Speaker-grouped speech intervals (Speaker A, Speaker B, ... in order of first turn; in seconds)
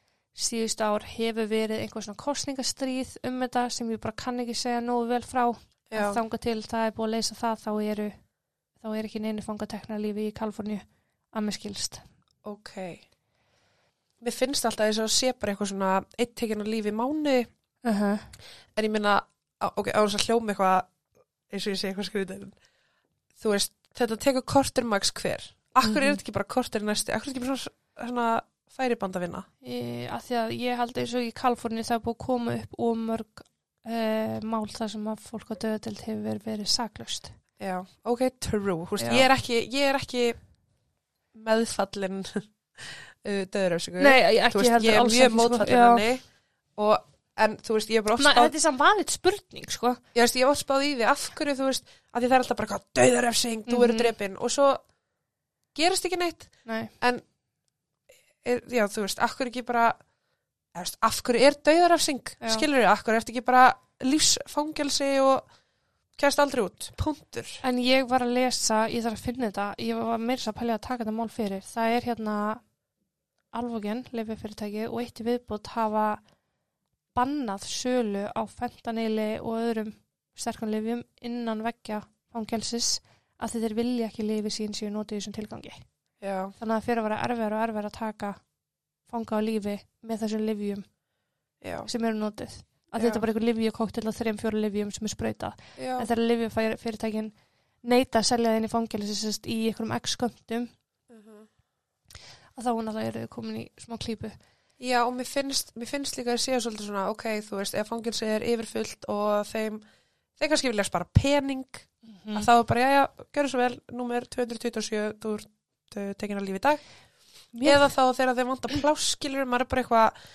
Speaker A: 0.3-8.1, 8.8-12.0, 17.8-18.3, 25.8-26.2, 29.6-37.4, 39.0-39.3, 44.0-46.0, 48.2-50.0, 53.7-54.1, 56.7-56.9, 67.6-72.6, 73.5-76.2, 77.2-85.8, 86.6-88.4, 89.1-90.8, 91.9-100.7, 102.6-104.4, 112.1-112.5, 117.5-117.9
Speaker B: 5.9-6.2, 12.4-13.1, 14.2-17.5, 18.8-20.9, 21.5-22.6, 23.4-29.5, 37.6-40.4, 41.3-46.2, 46.8-48.5, 50.1-54.8, 55.8-57.2, 58.4-60.0, 60.8-65.4, 66.2-67.6, 86.2-86.5, 91.6-91.9, 93.0-93.2, 95.8-96.1, 101.1-101.5, 104.8-109.8, 110.4-116.8, 117.6-120.1